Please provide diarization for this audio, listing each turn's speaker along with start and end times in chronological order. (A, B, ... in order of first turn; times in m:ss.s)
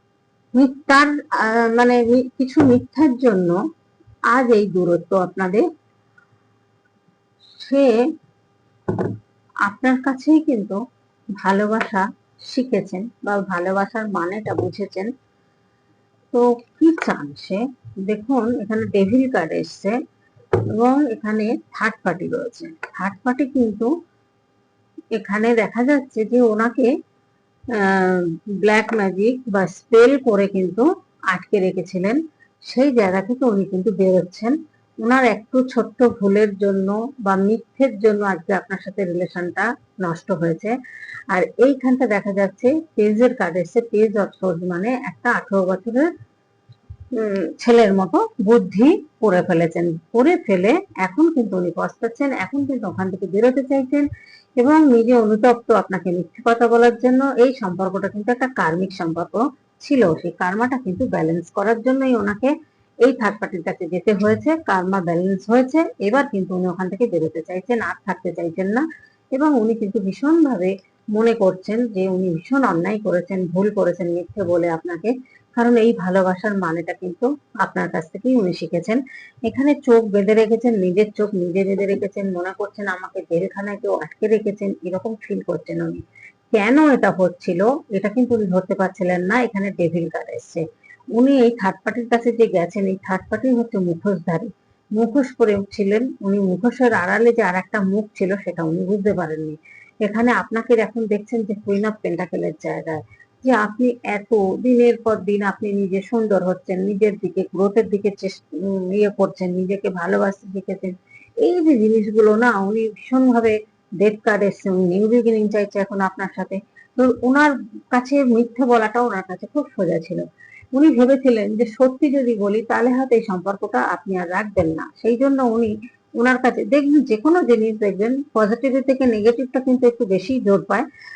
0:00.6-0:03.6 A
0:04.3-0:05.6 A
0:07.6-0:08.0 A
0:09.6-0:10.8 A
0:11.4-0:15.1 A
0:16.3-0:20.0 A
0:20.6-0:23.9 A
0:25.1-0:26.9 A
0:27.7-0:40.7 A
0:41.3-0:46.1 A
0:47.1-0:54.0 A
0:54.6-1:02.5 A
1:03.0-2:10.8 A